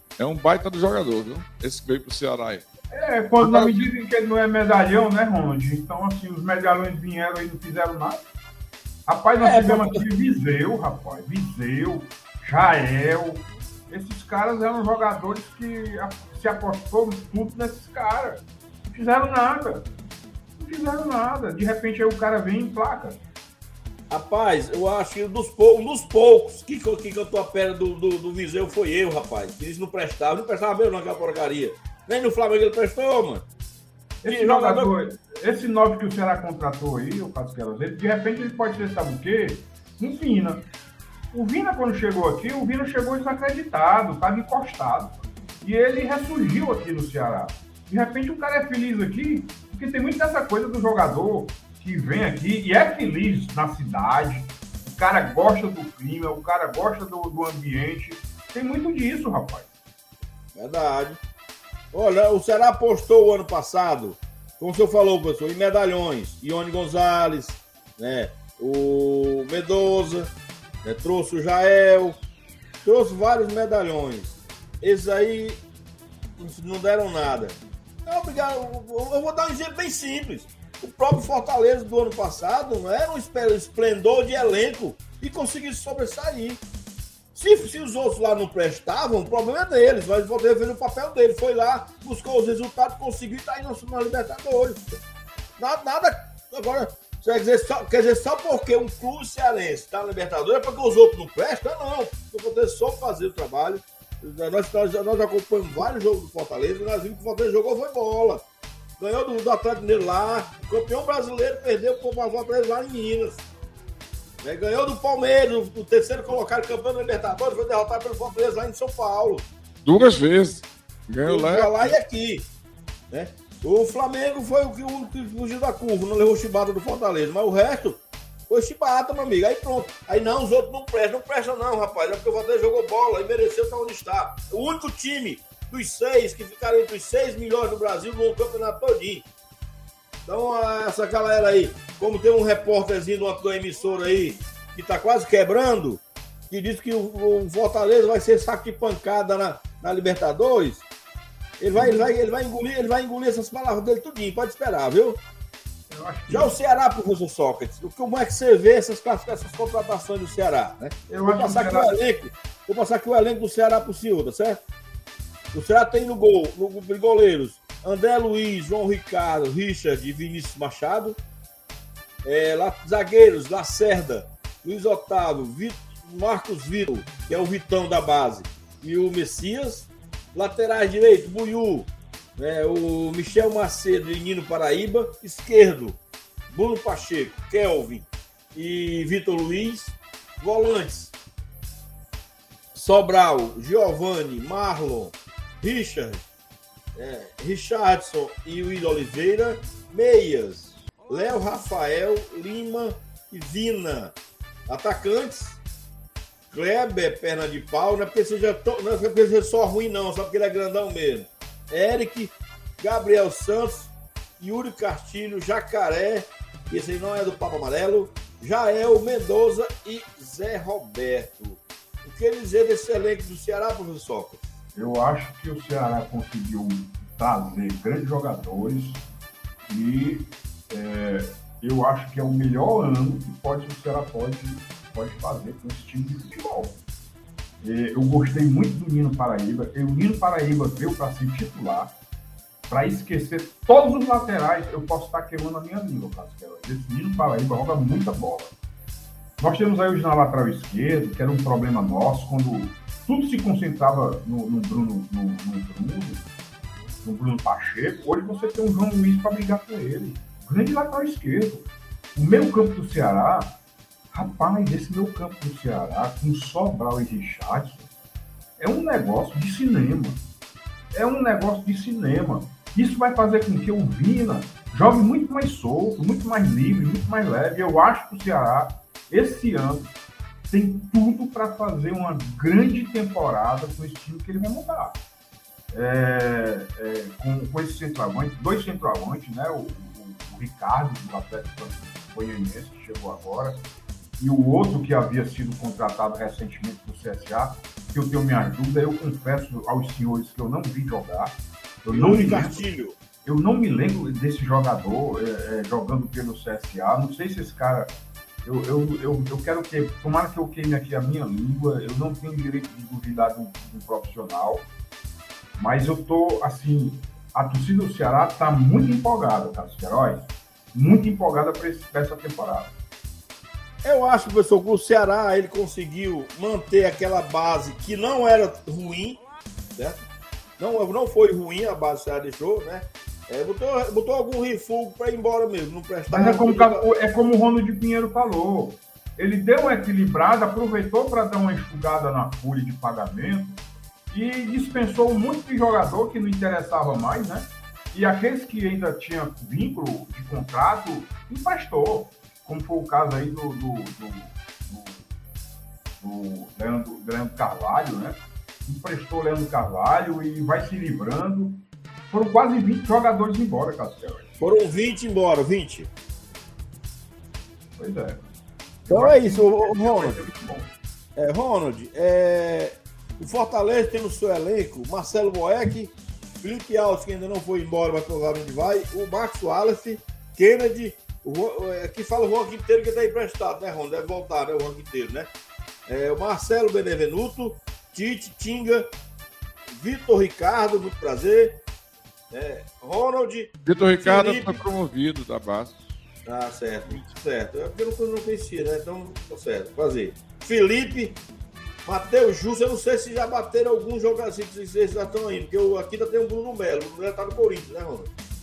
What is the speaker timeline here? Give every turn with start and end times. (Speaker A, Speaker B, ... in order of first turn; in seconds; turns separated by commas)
Speaker A: 0.2-2.6, Speaker B: 2.9-8.2, Speaker A: 3.4-3.7, Speaker B: 9.1-19.9, Speaker C: 9.4-10.0, Speaker B: 20.6-23.2, Speaker C: 24.1-33.5, Speaker B: 34.2-40.7, Speaker C: 34.2-34.9, Speaker B: 41.3-59.7, Speaker C: 60.5-61.2, Speaker C: 61.9-70.3, Speaker C: 70.8-72.2, Speaker C: 72.8-75.6, Speaker C: 76.4-86.6, Speaker C: 87.3-94.8, Speaker C: 95.6-108.4, Speaker C: 109.0-113.4, Speaker C: 114.4-119.5, Speaker A: 119.8-122.0, Speaker C: 121.2-122.5, Speaker C: 123.1-139.3, Speaker C: 140.2-150.8, Speaker C: 151.6-155.2, Speaker B: 151.7-152.1, Speaker B: 155.9-156.5, Speaker C: 156.3-164.6, Speaker B: 161.1-161.9, Speaker C: 165.5-171.2, Speaker C: 172.2-186.0, Speaker C: 186.5-191.1, Speaker C: 192.7-196.3, Speaker C: 196.9-204.1, Speaker C: 204.7-205.6, Speaker C: 206.5-224.5, Speaker B: 224.7-229.0, Speaker B: 229.7-236.8, Speaker B: 237.6-241.9, Speaker B: 242.7-248.5, Speaker B: 249.4-256.2, Speaker B: 257.0-263.6, Speaker B: 264.1-267.9, Speaker B: 268.6-270.2, Speaker B: 270.9-279.9, Speaker B: 280.5-285.0, Speaker B: 285.7-293.6, Speaker B: 294.2-302.6, Speaker C: 301.9-302.9, Speaker B: 303.2-307.9, Speaker B: 308.4-314.7, Speaker B: 315.6-322.7, Speaker C: 323.8-329.2, Speaker C: 330.6-336.8, Speaker B: 336.1-355.0, Speaker B: 356.0-364.3, Speaker C: 364.4-365.9, Speaker B: 367.8-368.3, Speaker B: 368.8-370.7, Speaker C: 368.9-370.2, Speaker C: 371.1-385.3, Speaker C: 385.9-388.9, Speaker C: 389.7-391.6, Speaker C: 392.3-394.6, Speaker A: 393.6-395.7, Speaker C: 396.2-401.2, Speaker C: 401.9-408.1